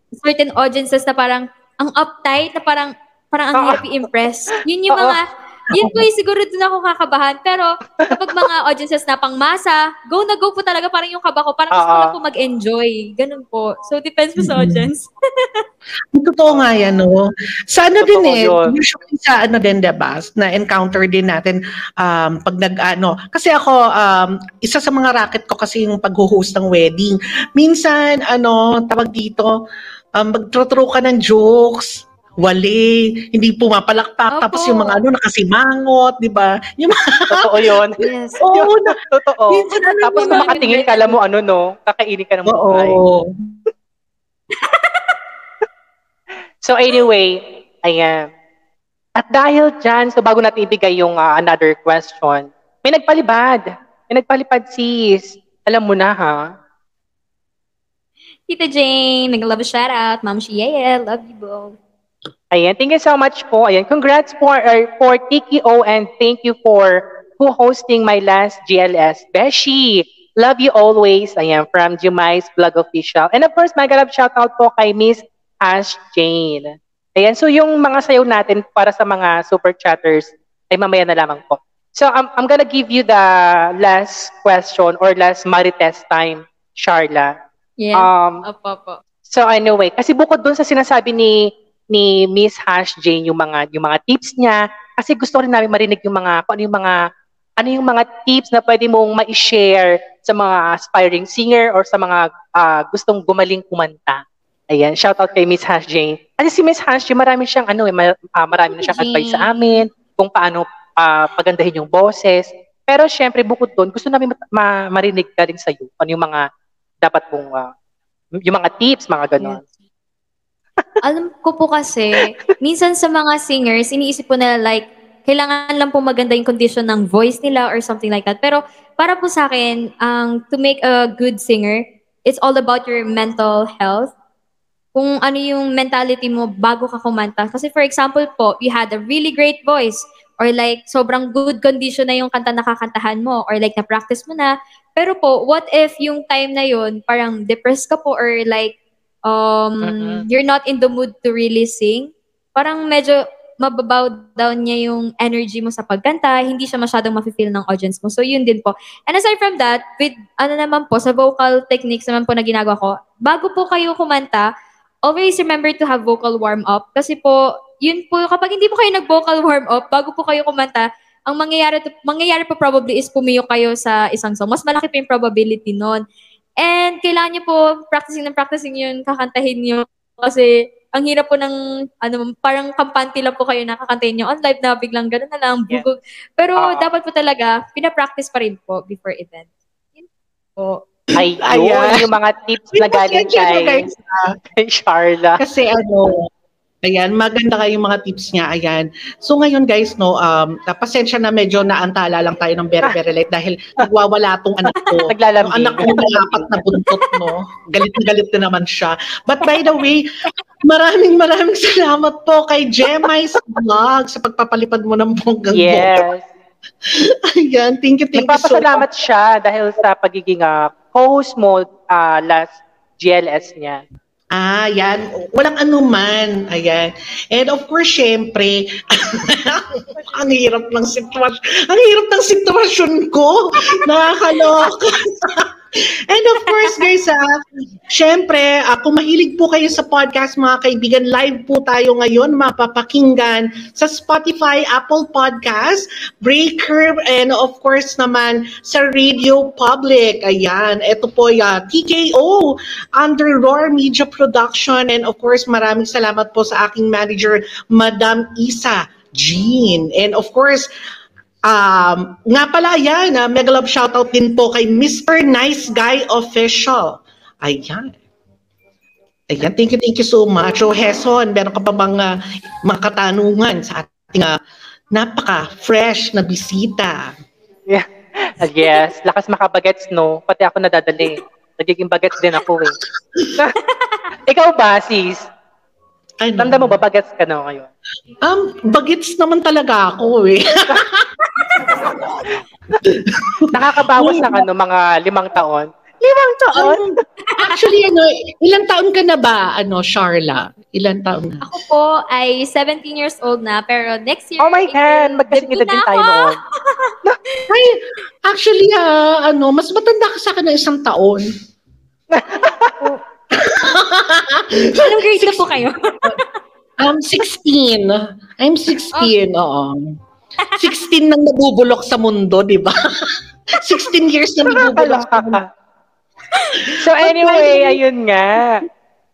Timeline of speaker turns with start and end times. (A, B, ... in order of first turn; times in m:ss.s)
0:00.2-0:15.6 A
0:03.5-0:03.8 B
0:04.9-0:05.2 B
0:05.7-0:06.0 C
0:11.7-0:12.2 B
0:14.4-0:14.9 C
0:16.1-0:29.5 C
0:18.0-0:18.7 B
0:30.2-0:37.8 C
0:34.4-0:35.0 A
0:37.3-0:38.0 B
0:38.0-0:38.4 A
0:38.4-0:39.0 C
0:38.5-0:43.0 B
0:39.5-0:40.6 C
0:39.8-0:41.2 A
0:42.5-0:43.4 C
0:44.6-0:45.0 A
0:46.6-0:48.3 B
0:49.2-0:56.4 B
0:58.5-1:01.8 A
1:02.5-1:23.2 B
1:23.8-1:27.3 B
1:27.8-1:29.0 A
1:27.9-1:28.4 B
1:29.3-1:31.4 B
1:31.9-1:37.0 B
1:37.6-1:56.4 B
1:48.8-1:49.5 A
1:57.0-1:57.7 B
1:58.4-1:59.6 B
2:01.0-2:14.1 A
2:14.9-2:28.7 A
2:29.2-2:44.4 A
2:29.8-2:30.2 B
2:45.1-2:56.0 A
2:56.6-3:09.5 A
3:06.6-3:06.9 B
3:10.6-3:12.1 C
3:11.2-3:13.9 B
3:12.7-3:14.3 C
3:14.6-3:15.4 B
3:15.4-3:16.3 C
3:16.8-3:30.0 C
3:24.7-3:26.7 B
3:30.6-3:36.0 C
3:35.5-3:36.3 B
3:36.9-3:38.8 C
3:38.1-3:43.8 B
3:44.3-3:55.5 C
3:56.1-3:57.2 C
3:57.9-4:20.7 C
4:21.5-4:28.0 C
4:29.3-4:32.1 C
4:32.6-4:34.4 C
4:34.9-4:37.0 C
4:37.7-4:42.8 B
4:44.2-4:45.3 B
4:46.2-4:46.8 C
4:46.4-4:47.7 B
4:48.2-4:51.1 C
4:52.8-4:54.4 C
4:53.5-4:56.8 B
4:56.5-5:01.4 C
5:01.4-5:06.9 A
5:04.4-5:06.4 B
5:07.5-5:11.3 C
5:12.1-5:13.0 B
5:13.3-5:15.4 C
5:14.8-5:16.2 A
5:16.8-5:19.8 C
5:20.6-5:25.4 C
5:24.8-5:25.4 B
5:26.6-5:27.8 C
5:26.8-5:28.6 B